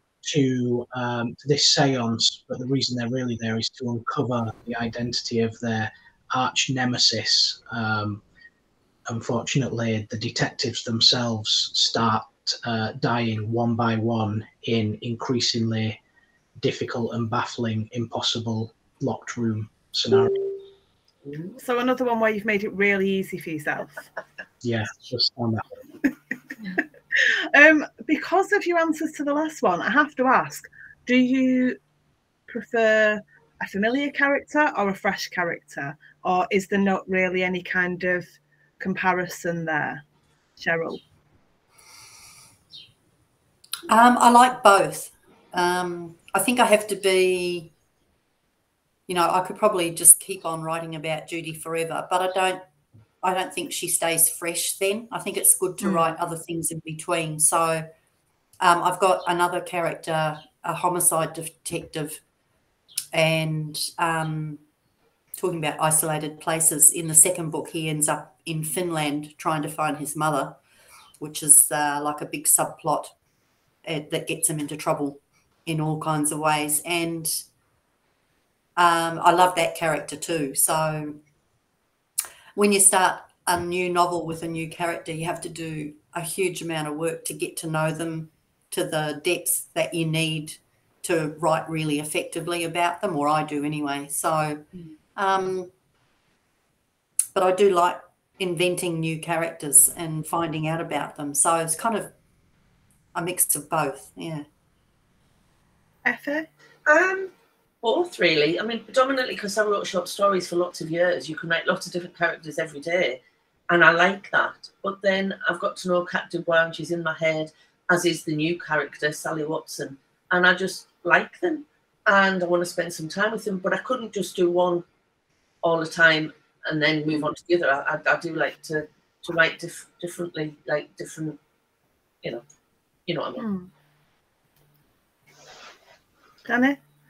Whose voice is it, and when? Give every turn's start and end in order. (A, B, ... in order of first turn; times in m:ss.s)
0:00.2-0:08.2 A
0:09.1-0:16.0 A
0:16.6-0:20.4 A
0:21.6-0:24.0 B
0:24.6-0:25.7 A
0:27.1-0:31.8 B
0:32.5-0:40.0 B
0:40.6-0:41.0 B
0:43.9-0:47.7 C
0:49.1-0:52.6 C
0:53.2-0:57.9 C
0:55.8-0:56.1 B
0:58.6-1:02.2 C
1:03.1-1:04.6 C
1:05.4-1:10.6 C
1:11.2-1:13.1 C
1:13.8-1:17.4 C
1:18.8-1:21.2 C
1:22.6-1:35.7 C
1:37.4-1:42.1 C
1:43.1-1:44.4 C
1:46.1-1:46.5 B
1:46.9-1:47.3 D
1:47.8-2:04.8 D
2:05.6-2:11.4 D
2:13.1-2:13.5 D
2:13.4-2:13.7 B
2:16.5-2:16.8 B